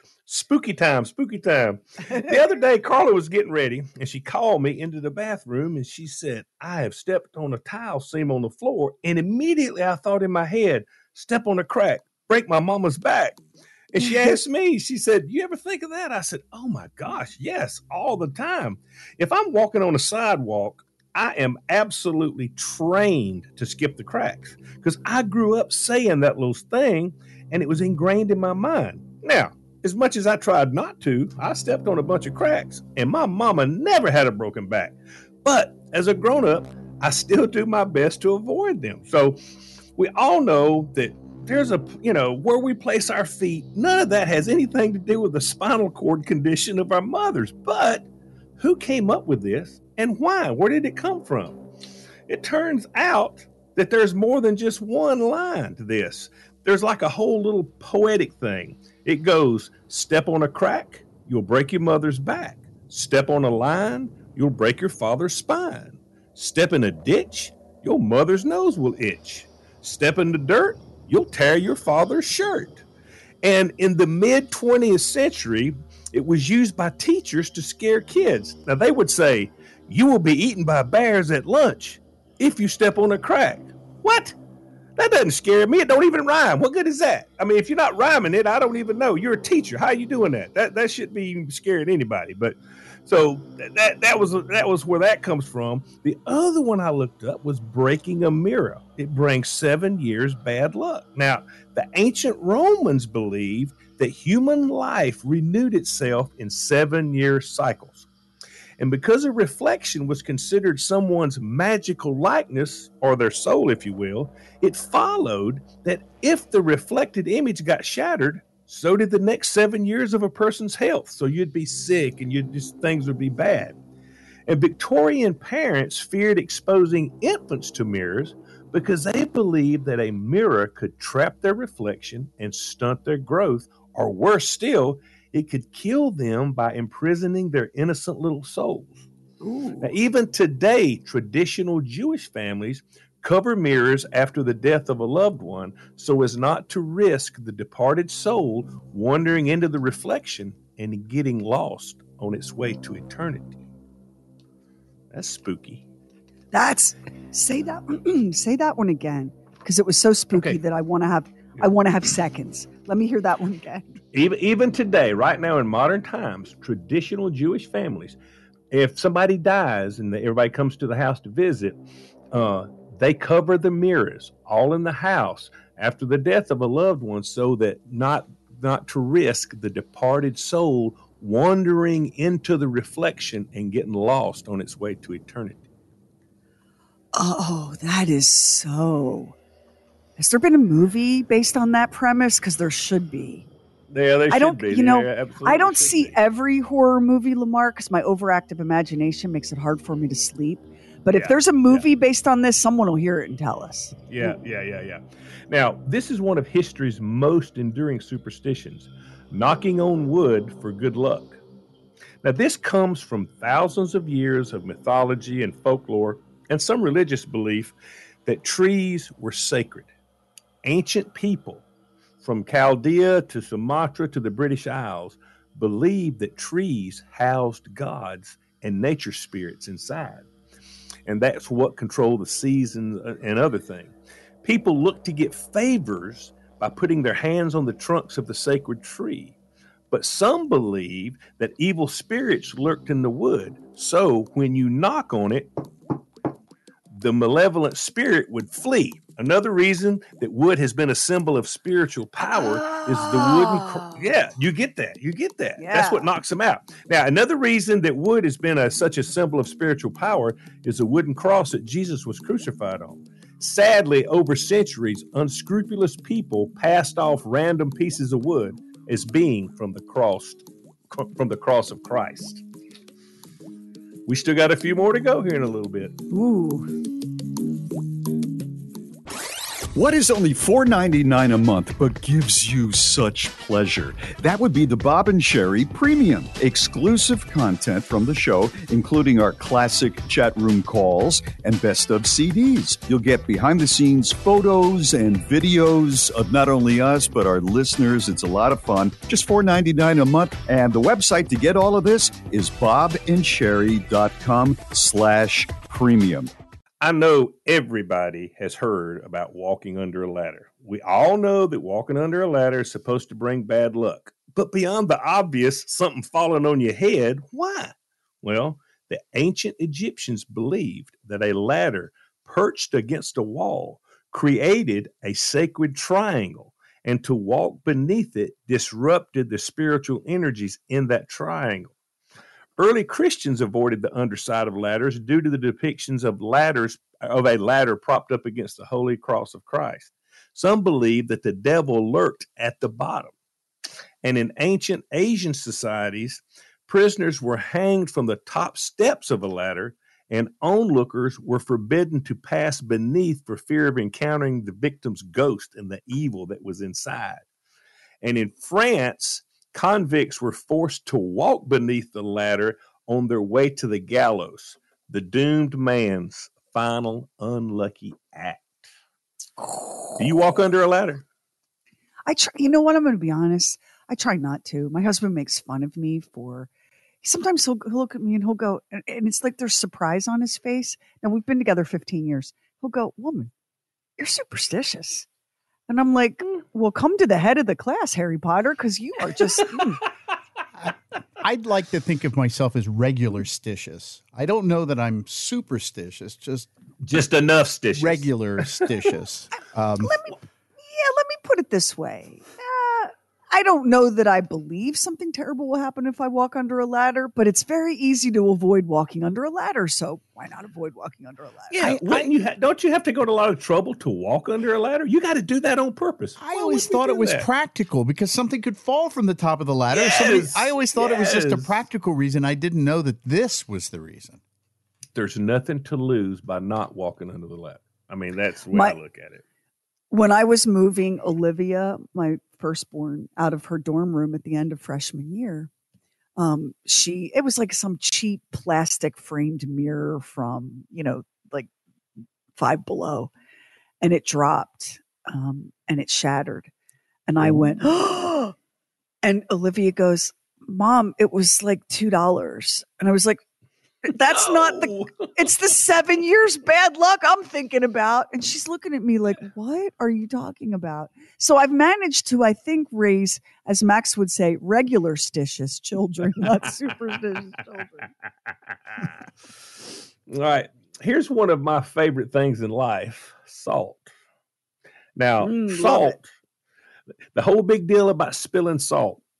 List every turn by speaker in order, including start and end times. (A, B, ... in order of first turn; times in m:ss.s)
0:00.3-0:13.4 A
0:13.9-0:39.4 A
0:14.0-0:14.3 B
0:40.0-0:48.1 A
0:48.6-0:51.6 A
0:52.3-1:12.8 A
1:13.4-1:24.3 A
1:25.0-1:48.1 A
1:48.8-2:03.8 A
2:04.5-2:19.0 A
2:19.4-2:19.9 B
2:19.8-2:33.7 A
2:35.1-2:35.8 A
2:36.5-2:44.0 B
2:40.3-2:40.6 A
2:44.1-2:48.2 A
2:48.7-2:51.8 A
2:52.3-3:05.6 A
3:07.2-3:09.3 B
3:10.2-3:13.5 B
3:13.9-3:16.2 A
3:14.3-3:24.4 B
3:21.1-3:21.8 A
3:24.1-3:31.4 A
3:32.2-3:37.7 A
3:38.2-3:39.9 A
3:40.6-3:41.6 A
3:42.2-3:50.3 A
3:51.0-3:59.4 A
3:59.9-4:05.5 A
4:06.9-4:32.4 A
4:12.3-4:14.0 B
4:15.6-4:16.1 B
4:34.0-4:36.0 A
4:36.1-4:36.7 B
4:39.7-5:06.3 C
5:06.8-5:31.7 A
5:32.6-5:43.1 A
5:44.0-5:57.2 A
5:58.0-6:08.6 A
6:10.0-6:11.0 A
6:12.0-6:16.5 B
6:17.0-6:23.3 B
6:24.0-6:25.1 B
6:25.7-6:29.8 B
6:31.2-6:36.5 D
6:36.8-6:38.7 A
6:37.7-6:40.0 D
6:39.8-6:52.1 B
6:51.5-6:57.3 A
6:56.2-7:04.2 D
6:59.7-7:01.5 A
7:04.9-7:09.2 A
7:08.5-7:08.8 B
7:09.9-7:15.5 B
7:16.2-7:21.5 B
7:22.4-7:23.1 B
7:23.8-7:26.5 B
7:27.1-7:28.3 B
7:27.2-7:27.5 A
7:29.0-7:33.2 B
7:33.8-7:47.9 B
7:34.0-7:35.1 A
7:50.1-7:53.9 A
7:55.0-7:56.1 A
7:55.2-7:56.0 B
7:57.1-7:59.0 A